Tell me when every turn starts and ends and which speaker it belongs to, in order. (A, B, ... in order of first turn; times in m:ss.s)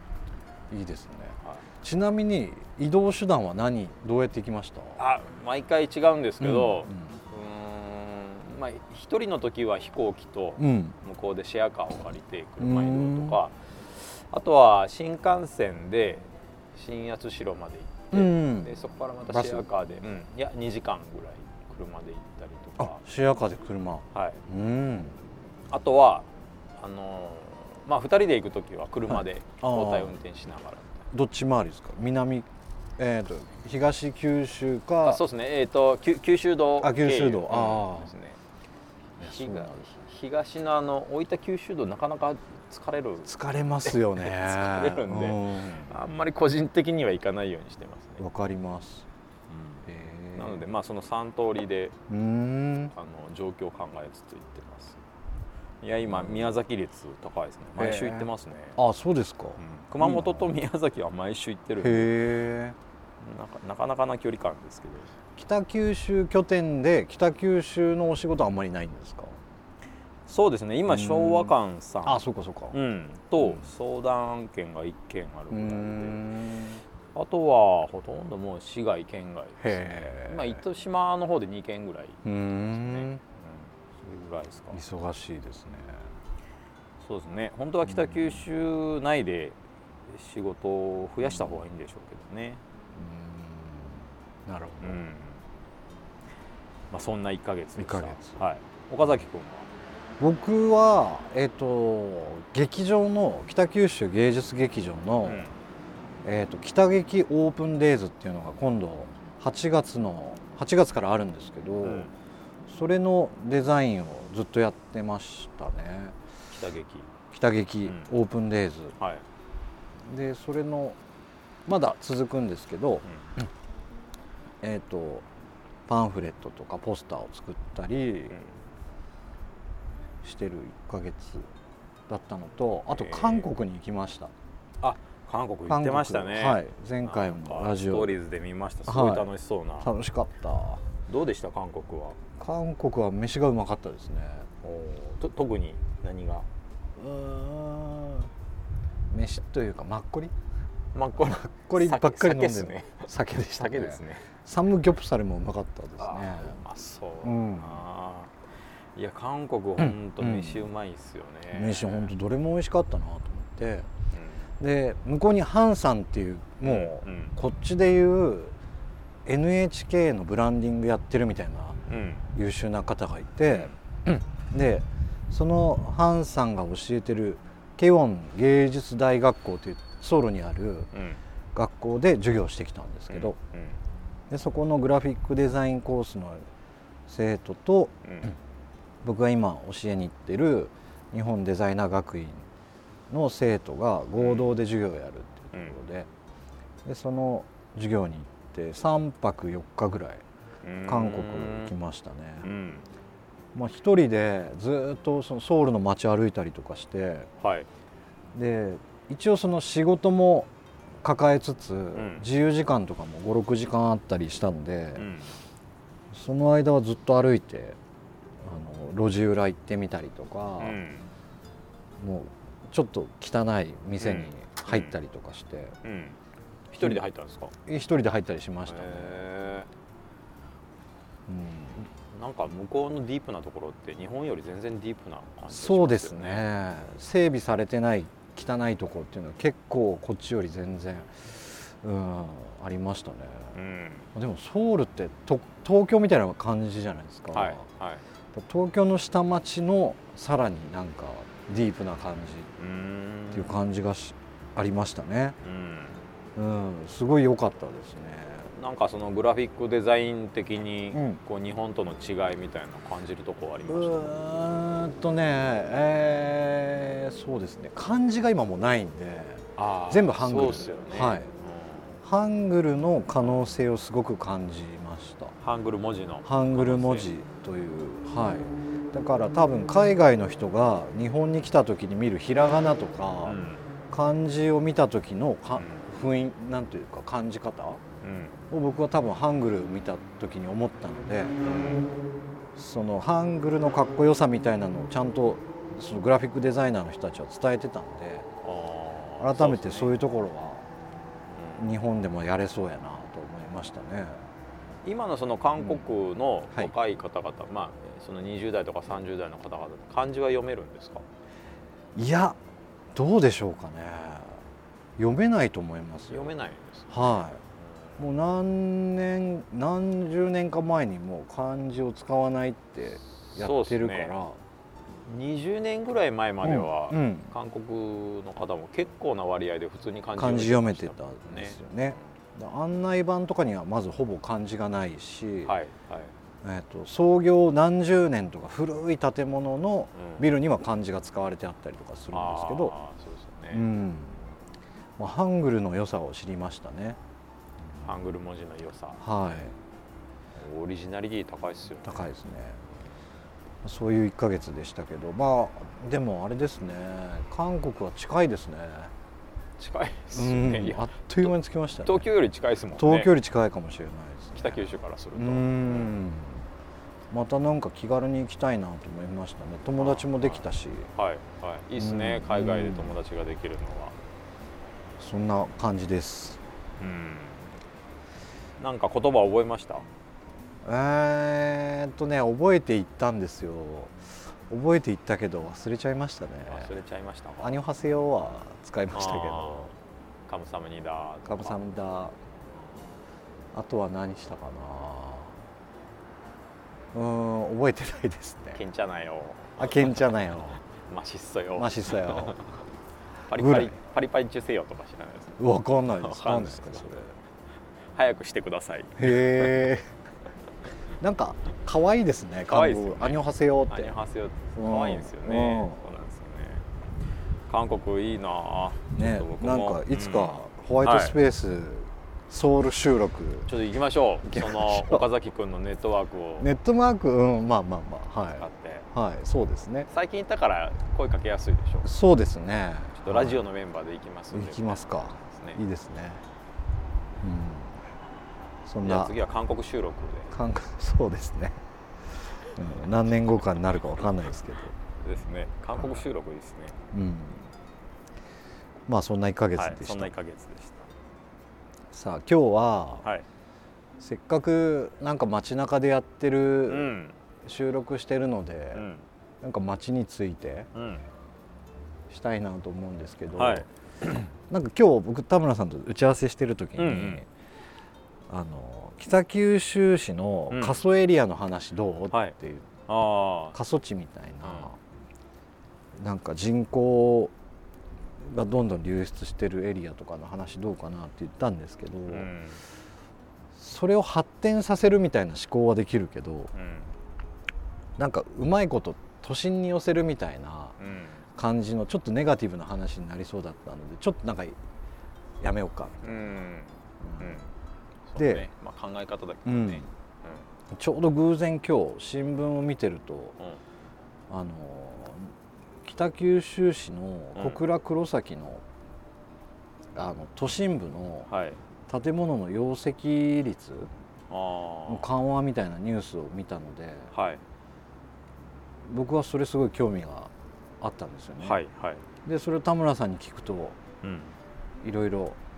0:00.7-0:05.0 A
0:05.0-0:23.0 B
0:06.4-0:07.2 A
0:10.6-0:11.0 A
0:12.6-0:13.4 A
0:18.1-0:18.7 A
0:19.3-0:19.7 A
0:22.8-0:25.2 A
0:24.1-0:24.4 B
0:25.7-0:26.3 B
0:26.8-0:31.0 B
0:29.1-0:30.2 A
0:31.1-0:35.2 A
0:35.0-0:38.4 B
0:36.8-0:38.1 A
0:39.2-0:39.8 A
0:39.2-0:43.3 B
0:43.3-0:45.9 A
0:43.8-0:48.2 B
0:48.2-0:49.0 A
0:49.5-0:52.0 B
0:49.8-0:50.6 A
0:52.1-0:52.9 A
0:52.9-0:55.0 B
0:55.8-0:58.8 B
0:56.1-0:56.5 A
0:57.8-1:00.5 A
0:59.6-1:02.1 B
1:01.8-1:02.8 A
1:03.2-1:05.1 B
1:05.4-1:09.4 A
1:10.3-1:16.3 B
1:10.9-1:11.5 A
1:12.0-1:12.8 A
1:13.4-1:13.6 A
1:15.5-1:16.8 A
1:17.1-1:24.8 B
1:19.6-1:20.6 A
1:22.2-1:23.2 A
1:24.7-1:26.0 A
1:27.0-1:29.6 B
1:27.8-1:28.4 A
1:30.1-1:32.6 B
1:31.2-1:31.6 A
1:32.9-1:35.0 A
1:34.8-1:35.4 B
1:36.9-1:39.7 B
1:37.8-1:38.4 A
1:40.2-1:45.4 A
1:45.2-1:45.5 B
1:46.2-1:52.1 A
1:51.8-1:52.1 B
1:52.7-1:56.2 A
1:56.5-1:57.1 B
1:57.3-1:59.0 A
1:57.8-1:58.1 B
1:59.0-1:59.2 B
2:00.0-2:01.0 A
2:01.6-2:03.5 A
2:04.6-2:05.2 A
2:05.9-2:08.4 A
2:10.2-2:11.5 A
2:12.1-2:14.3 A
2:12.9-2:13.5 B
2:14.8-2:19.9 B
2:15.7-2:18.2 A
2:18.8-2:20.8 A
2:21.0-2:22.2 B
2:22.4-2:24.5 A
2:24.6-2:26.4 B
2:27.0-2:28.3 A
2:29.1-2:30.3 A
2:30.9-2:34.3 B
2:31.2-2:36.6 A
2:36.0-2:38.3 B
2:37.2-2:37.8 A
2:39.0-2:42.1 B
2:39.8-2:40.6 A
2:41.5-2:43.9 A
2:44.1-2:44.5 B
2:44.6-2:48.5 A
2:46.6-2:47.4 B
2:49.2-2:51.8 A
2:51.9-2:52.2 B
2:52.3-3:00.9 A
2:53.5-2:53.8 B
3:00.9-3:01.2 B
3:01.5-3:03.4 A
3:03.1-3:03.8 B
3:04.3-3:06.5 A
3:07.1-3:08.3 A
3:08.0-3:08.3 B
3:09.0-3:12.4 A
3:13.1-3:16.1 A
3:14.2-3:14.5 B
3:16.8-3:20.2 A
3:20.6-3:21.7 B
3:20.8-3:22.5 A
3:22.4-3:22.8 B
3:23.5-3:27.3 A
3:27.4-3:27.7 B
3:28.3-3:30.5 A
3:31.0-3:35.1 A
3:31.9-3:32.3 B
3:35.0-3:35.4 B
3:36.1-3:37.8 A
3:38.4-3:40.8 A
3:40.6-3:41.1 B
3:42.0-3:45.8 A
3:44.0-3:45.0 B
3:45.8-3:46.2 B
3:46.7-3:47.5 B
3:47.6-3:49.2 A
3:48.7-3:49.7 B
3:51.3-3:51.8 A
3:52.1-3:56.5 B
3:55.5-4:03.5 A
4:03.5-4:04.1 B
4:04.1-4:07.6 A
4:07.3-4:08.0 B
4:08.3-4:12.5 A
4:12.6-4:13.5 B
4:13.3-4:15.4 A
4:15.4-4:16.0 B
4:16.4-4:18.5 A
4:18.5-4:24.0 B
4:20.9-4:21.2 A
4:23.7-4:31.3 A
4:29.6-4:31.9 B
4:32.0-4:35.3 A
4:35.4-4:37.1 B
4:36.2-4:43.4 A
4:43.2-4:43.6 B
4:43.9-4:47.8 A
4:45.6-4:45.8 B
4:48.0-4:48.4 B
4:48.5-4:51.4 A
4:51.4-4:51.9 B
4:52.5-4:58.3 A
4:58.4-5:00.0 B
4:59.2-5:00.6 A
5:01.3-5:01.6 B
5:01.6-5:04.2 A
5:04.8-5:11.0 B
5:05.6-5:05.8 A
5:12.0-5:12.4 A
5:12.9-5:14.4 A
5:15.0-5:16.3 A
5:16.1-5:18.0 B
5:16.9-5:17.4 A
5:18.0-5:24.4 A
5:23.3-5:24.1 B
5:25.0-5:32.1 B
5:26.4-5:27.3 A
5:30.2-5:35.5 A
5:35.4-5:36.1 B
5:36.4-5:42.7 A
5:39.9-5:40.3 B
5:42.1-5:43.7 B
5:43.5-5:44.3 A
5:45.0-5:47.0 A
5:47.8-5:49.0 B
5:49.0-5:49.6 A
5:50.4-5:52.1 B
5:51.8-5:52.6 A
5:53.6-5:58.9 A
5:59.6-6:01.3 B
6:00.1-6:02.1 A
6:01.8-6:03.1 B
6:02.7-6:06.4 A
6:04.3-6:06.0 B
6:07.1-6:10.9 A
6:09.8-6:14.0 B
6:11.8-6:12.9 A
6:15.0-6:16.4 A
6:16.8-6:17.5 B
6:18.6-6:19.8 B
6:20.6-6:26.7 A
6:26.5-6:27.6 B
6:27.4-6:29.7 A
6:28.9-6:29.7 B
6:30.3-6:31.6 B
6:31.2-6:32.2 A
6:33.5-6:35.4 A
6:36.9-6:38.6 A
6:38.5-6:39.8 B
6:39.6-6:40.6 A
6:40.8-6:42.6 B
6:41.6-6:42.4 A
6:43.2-6:45.4 B
6:43.3-6:43.7 A
6:45.4-6:47.1 A
6:46.0-6:46.9 B
6:47.9-6:49.6 B
6:49.0-6:49.9 A
6:51.0-6:54.0 A
6:52.5-6:56.6 B
6:54.6-6:55.8 A
6:57.5-7:01.2 B
6:58.9-7:03.5 A
7:03.5-7:06.5 B
7:04.2-7:05.1 A
7:06.4-7:09.9 A
7:08.4-7:08.9 B
7:09.9-7:11.9 B
7:11.8-7:13.4 A
7:13.0-7:15.6 B
7:14.3-7:16.2 A
7:17.2-7:17.8 A
7:18.6-7:19.1 A
7:18.8-7:20.4 B
7:20.3-7:21.6 A
7:22.4-7:24.7 A
7:25.0-7:26.8 B
7:25.8-7:26.0 A
7:26.9-7:27.5 A
7:28.9-7:30.1 A
7:29.6-7:30.9 B
7:31.9-7:33.0 A
7:34.0-7:38.9 A
7:36.7-7:37.2 B
7:38.7-7:39.0 B
7:39.4-7:40.7 A
7:40.7-7:41.0 B
7:42.1-7:43.6 A
7:43.4-7:44.2 B
7:44.5-7:47.3 A
7:46.8-7:47.2 B
7:48.3-7:52.7 A
7:50.5-7:50.8 B
7:52.9-7:53.6 B
7:53.5-7:54.8 A
7:54.4-7:54.7 B
7:56.0-7:57.3 A
7:58.2-8:02.3 A
8:02.1-8:02.6 B
8:03.5-8:06.5 A
8:06.5-8:07.0 B
8:08.0-8:10.8 A
8:10.8-8:11.2 B
8:11.4-8:14.6 A
8:15.4-8:16.4 A
8:16.0-8:17.5 B
8:17.0-8:17.4 A
8:18.1-8:20.4 B
8:18.2-8:18.5 A
8:19.4-8:19.8 A
8:20.7-8:23.4 A
8:24.3-8:28.6 A
8:27.3-8:27.6 B
8:29.9-8:31.3 A
8:31.3-8:31.6 B
8:31.9-8:33.9 A
8:34.3-8:35.1 B
8:34.9-8:37.1 A
8:37.1-8:37.4 B
8:38.8-8:41.6 A
8:41.4-8:42.0 B
8:42.2-8:43.8 A
8:44.0-8:44.3 B
8:44.8-8:45.4 A